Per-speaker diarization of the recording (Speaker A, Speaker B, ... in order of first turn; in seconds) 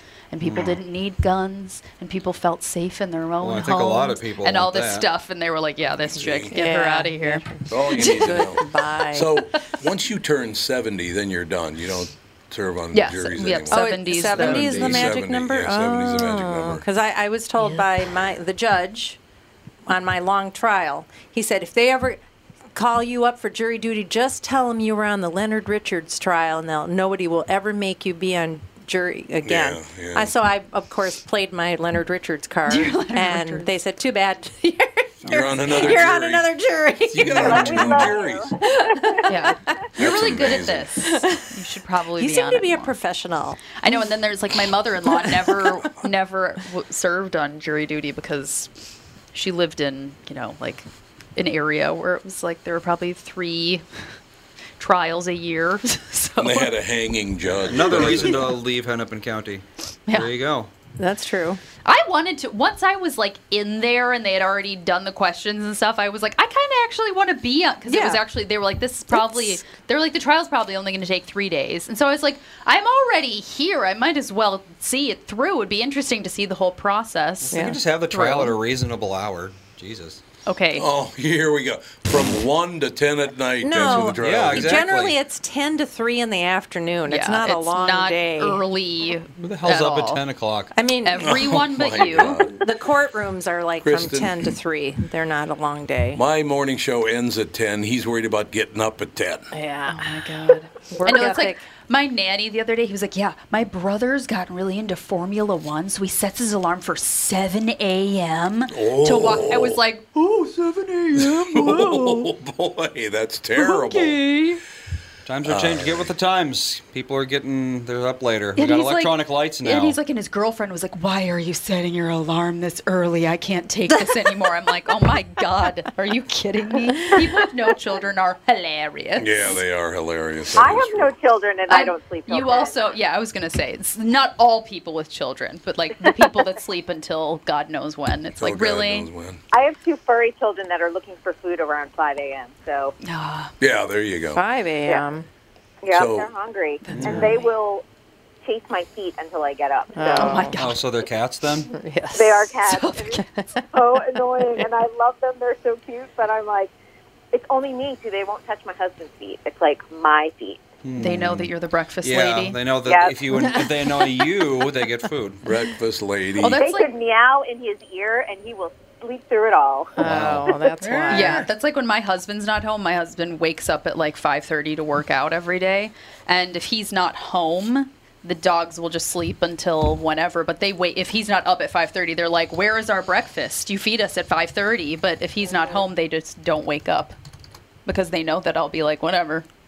Speaker A: 0.3-8.4, 12.9-15.1, 17.6-17.9, 32.7-33.7, 39.2-42.9, 43.8-50.8, 51.4-53.8, 54.8-56.7, 60.1-60.3, 61.8-78.6, 80.5-80.9, 87.1-90.2, 91.0-92.5, 99.9-112.3, 113.5-114.6, 118.5-129.5, 131.7-139.1, 143.0-143.5, 146.9-147.5, 150.1-150.8, 152.7-153.2, 161.0-162.6, 166.4-166.9, 171.1-187.1, 187.8-189.5
Speaker B: 0.4-0.8, 3.4-5.1, 57.6-60.7, 77.4-80.2, 84.2-85.2, 89.3-90.7, 115.2-120.0, 146.9-147.3, 150.5-151.7, 160.8-165.4
Speaker C: 6.1-6.5, 7.7-16.8, 29.4-30.3, 35.2-36.5, 37.1-38.5, 40.0-40.9, 56.4-58.5, 80.7-84.9, 91.2-92.5, 93.8-94.5, 96.1-99.5, 108.7-109.8, 111.1-114.2, 115.4-116.1, 129.2-131.1, 138.4-139.4, 143.6-144.4, 145.9-146.3, 165.4-166.6, 170.0-170.4
Speaker D: 6.5-9.5, 13.7-19.2, 19.9-22.2, 22.7-39.5, 41.0-41.5, 42.1-44.0, 45.0-45.8, 61.0-61.6, 67.8-68.2, 69.1-69.6, 77.5-77.8, 83.6-88.6, 90.7-96.2, 99.5-101.6, 144.3-145.2, 149.9-150.6, 151.7-153.6, 163.4-163.7, 170.0-171.5
Speaker E: 37.3-39.2, 130.6-132.8, 139.5-142.9, 145.8-147.8, 148.4-150.5, 152.1-156.7, 157.3-160.6, 162.8-163.5, 166.6-171.2, 185.5-185.8